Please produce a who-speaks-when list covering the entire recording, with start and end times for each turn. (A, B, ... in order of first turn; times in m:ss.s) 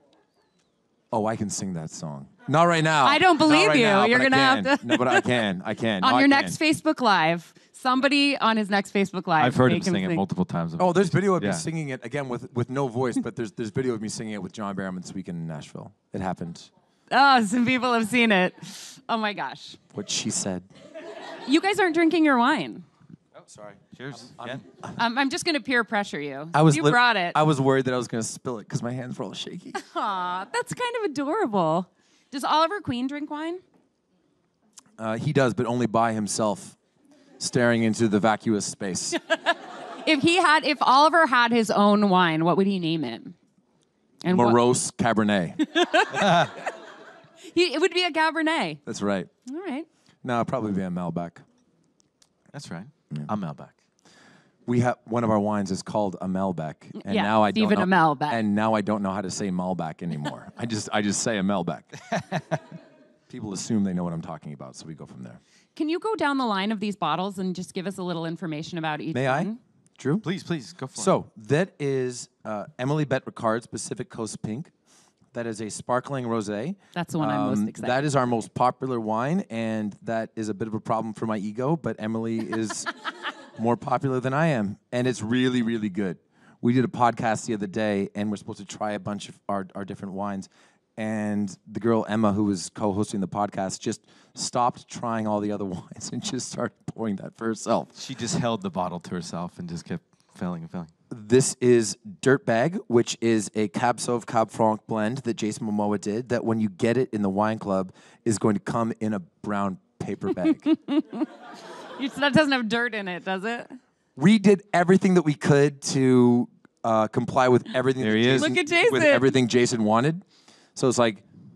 0:01.1-0:06.6 A
0:03.0-0:05.5 B
0:06.0-0:10.2 B
0:09.4-0:11.6 C
0:10.8-0:16.7 A
0:17.1-0:19.8 B
0:19.9-0:20.7 A
0:21.4-0:22.9 B
0:23.5-0:25.0 A
0:23.6-0:24.6 C
0:25.0-0:27.4 B
0:26.5-0:29.8 A
0:29.8-0:33.6 B
0:35.0-0:36.8 A
0:37.4-0:39.2 A
0:39.3-0:43.4 B
0:44.2-0:44.6 B
0:44.3-0:45.6 A
0:45.6-0:46.7 B
0:46.2-0:46.5 C
0:47.5-0:48.8 B
0:48.9-0:49.3 A
0:49.5-0:49.9 B
0:50.2-0:51.4 A
0:52.5-0:53.7 C
0:54.7-1:01.9 A
0:57.0-0:58.4 B
1:02.1-1:02.6 C
1:03.3-1:05.4 A
1:05.8-1:09.6 B
1:09.1-1:10.3 A
1:10.2-1:11.2 C
1:11.0-1:14.7 A
1:15.3-1:22.9 A
1:17.0-1:18.0 B
1:23.6-1:37.9 A
1:38.0-1:40.9 C
1:41.1-1:50.7 A
1:50.7-1:51.3 B
1:52.0-1:53.8 B
1:54.2-2:00.2 A
1:58.0-1:58.6 C
1:58.4-1:59.4 B
2:00.8-2:01.2 A